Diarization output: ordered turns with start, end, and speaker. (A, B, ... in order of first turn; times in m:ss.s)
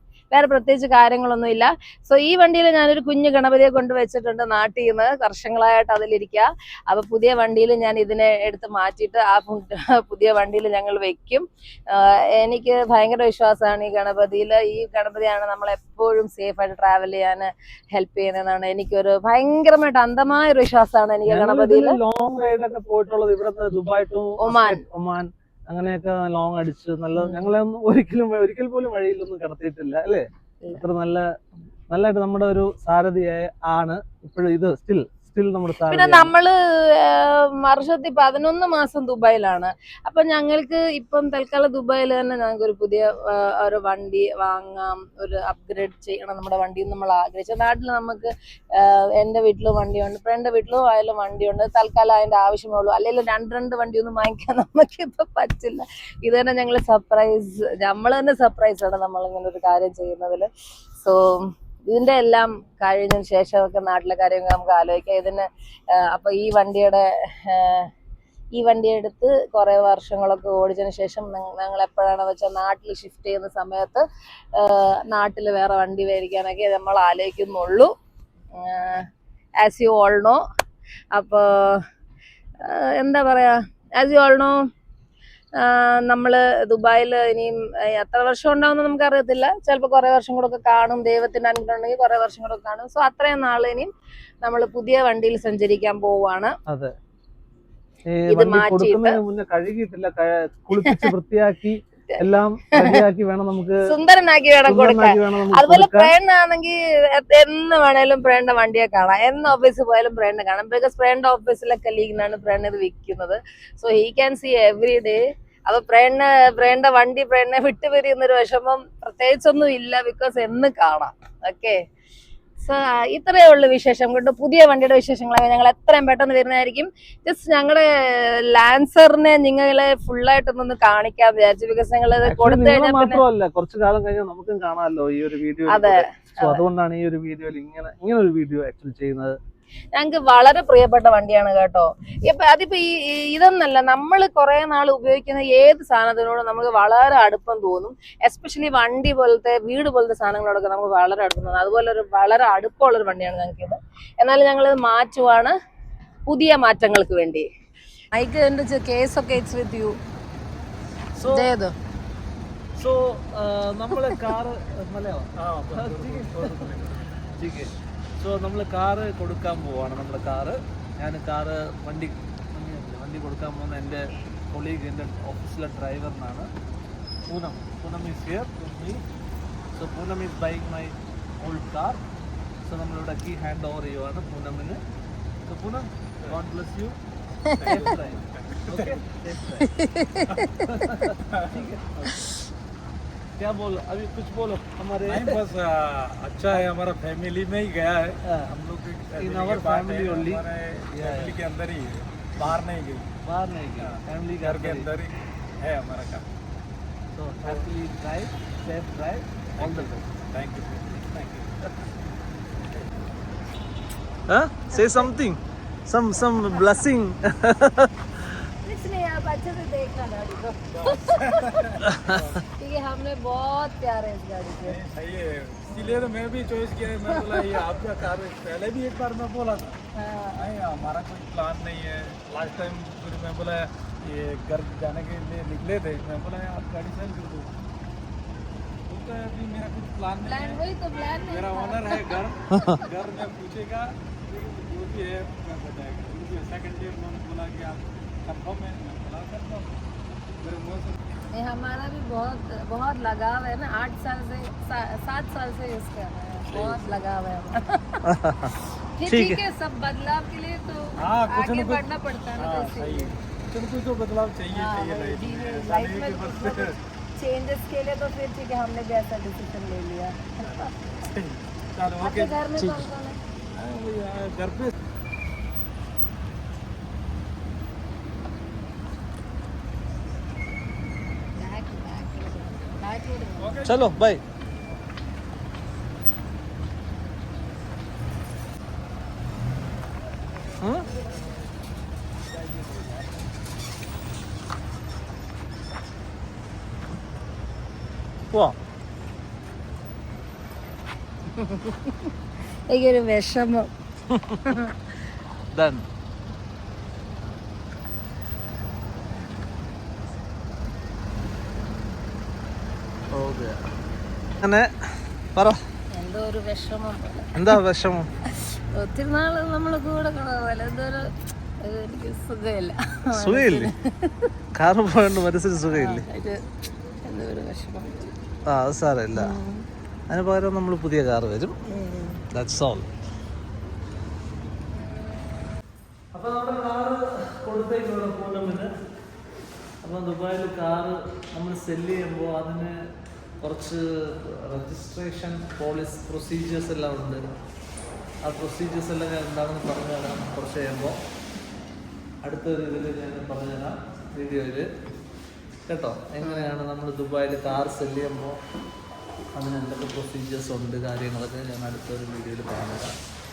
0:00.3-0:22.0 A
0:21.3-0:31.2 B
0:24.4-0:24.8 A
0:27.2-0:27.5 A
0:31.9-0:36.3 B
0:35.9-1:00.5 A
1:01.0-1:07.9 A
1:08.5-1:14.0 A
1:14.6-1:17.9 A
1:18.5-1:19.1 A
1:19.6-1:20.4 A
1:21.1-1:21.8 A
1:22.6-1:24.6 A
1:25.6-1:33.9 A
1:34.4-1:36.5 A
1:36.7-1:36.9 B
1:38.1-1:43.8 B
1:38.3-1:39.2 A
1:40.8-1:41.1 A
1:42.7-1:43.0 A
1:43.9-2:01.8 A
1:44.6-1:46.1 B
2:02.6-2:13.2 A
2:12.2-2:19.4 B
2:15.7-2:16.6 A
2:19.9-2:35.5 A
2:36.3-2:37.5 A
2:38.1-2:40.0 A
2:41.2-2:41.5 B
2:41.2-2:41.7 A
2:42.8-2:56.5 B
2:45.4-2:47.1 C
2:57.3-2:59.0 B
2:59.7-3:02.0 B
3:02.6-3:04.8 B
3:05.5-3:07.0 B
3:07.5-3:07.8 A
3:07.6-3:09.7 B
3:07.6-3:09.0 C
3:09.5-3:11.1 A
3:10.7-3:12.1 B
3:11.2-3:12.2 C
3:13.4-3:15.4 B
3:15.1-3:23.1 C
3:18.2-3:18.5 B
3:19.2-3:21.4 B
3:23.2-3:24.9 B
3:23.8-3:26.3 C
3:27.2-3:30.0 B
3:29.6-3:31.6 C
3:34.3-3:38.4 B
3:34.7-3:35.1 A
3:38.6-3:41.4 A
3:40.7-3:42.4 C
3:41.8-3:42.4 B
3:42.6-3:44.8 A
3:44.6-3:49.8 C
3:45.8-3:46.0 A
3:47.0-3:47.6 A
3:50.0-3:50.5 A
3:50.4-3:57.5 C
3:58.9-4:09.7 C
4:00.3-4:02.8 A
4:02.5-4:02.8 B
4:10.4-4:11.0 C
4:11.3-4:18.0 A
4:16.5-4:17.0 C
4:18.0-4:19.4 B
4:19.0-4:23.1 A
4:21.0-4:26.7 C
4:24.5-4:30.7 A
4:30.4-4:32.9 C
4:32.0-4:33.2 A
4:33.6-4:34.7 C
4:41.4-4:43.7 A
4:43.4-4:43.9 C
4:43.6-4:44.2 B
4:50.6-4:50.9 B
4:52.5-4:53.1 C
4:58.3-4:58.6 B
5:01.3-5:02.1 A
5:02.7-5:03.7 A
5:04.1-5:04.4 B
5:04.4-5:04.9 A
5:05.5-5:05.8 B
5:13.1-5:13.6 B
5:14.4-5:15.6 B
5:15.9-5:17.4 A
5:17.4-5:18.1 B
5:18.3-5:24.3 A
5:23.2-5:23.7 B
5:24.6-5:26.1 B
5:25.7-5:26.4 A
5:27.1-5:28.1 A
5:28.5-5:29.3 B
5:29.2-5:29.6 A
5:30.1-5:31.6 B
5:31.7-5:32.2 A
5:32.3-5:32.9 B
5:36.1-5:38.7 B
5:39.8-5:42.9 B
5:43.4-5:47.2 B
5:48.2-5:51.0 B
5:52.2-5:54.7 B
5:55.7-5:58.4 B
5:56.2-5:56.6 A
5:59.4-6:02.9 B